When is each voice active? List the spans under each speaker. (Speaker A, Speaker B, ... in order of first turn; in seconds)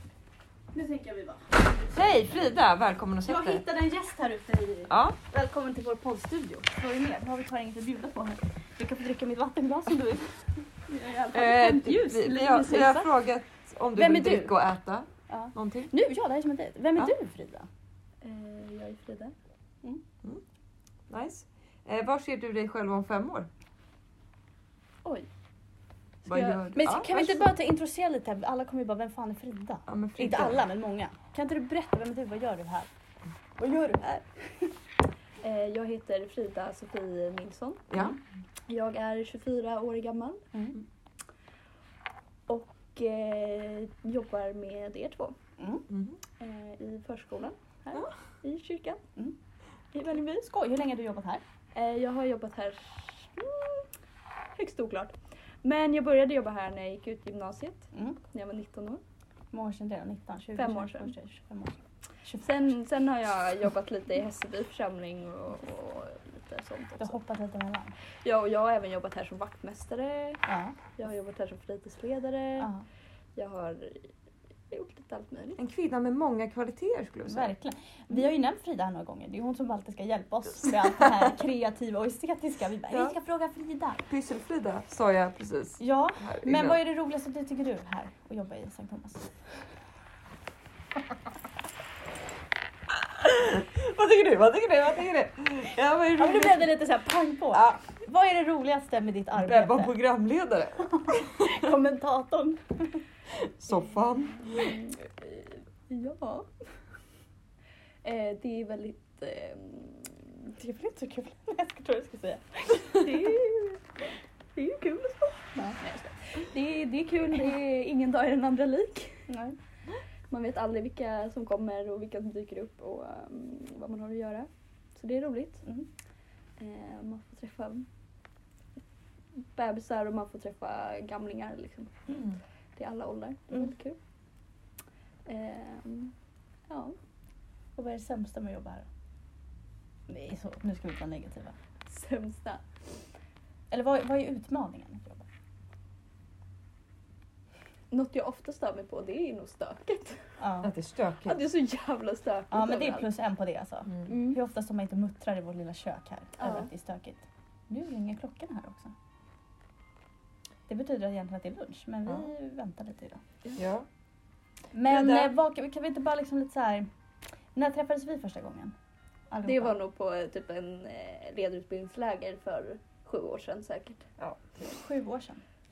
Speaker A: 0.7-1.9, 3.2-10.7, 11.9-13.1, 13.9-14.6, 15.3-17.7, 26.7-32.9, 33.6-34.7, 40.5-40.8, 45.6-45.9, 50.1-51.4, 57.9-58.2, 59.5-62.7, 67.0-67.9, 70.5-70.8, 72.6-72.8, 77.2-84.0, 85.8-89.3, 96.2-100.0, 100.9-103.0, 110.6-113.3, 119.3-119.5, 137.8-138.9, 140.1-141.5, 143.7-145.2, 150.4-150.7, 152.5-158.9, 160.7-163.2, 164.7-166.9, 167.5-168.7, 169.3-169.8, 174.7-175.4
Speaker B: 1.9-3.6, 4.9-5.2, 11.3-15.9, 21.1-23.5, 26.2-27.5, 29.9-30.6, 37.9-38.2, 45.9-46.2, 75.6-77.5, 80.8-81.1, 82.9-83.2, 84.1-86.8, 92.9-96.8, 97.5-97.8, 99.3-101.7, 103.3-104.7, 132.1-132.4, 150.6-151.4, 163.6-163.9, 164.8-165.3, 174.2-174.7
Speaker C: 10.9-12.9, 18.2-19.3, 26.3-26.7, 35.4-38.0, 38.7-40.5, 42.5-45.4, 46.4-47.6, 48.4-49.0, 49.9-50.4, 51.7-53.9, 54.5-59.0, 60.5-61.1, 62.4-67.2, 68.2-70.4, 71.0-72.7, 73.3-74.1, 74.7-75.6, 104.5-106.5, 108.0-110.3, 113.0-113.8, 114.5-119.3, 120.3-125.6, 126.6-127.9, 129.4-132.1, 132.8-134.0, 135.2-136.1, 136.7-136.9, 141.8-142.6, 147.9-150.3, 151.2-153.1, 154.1-154.4, 156.4-156.7, 169.4-174.1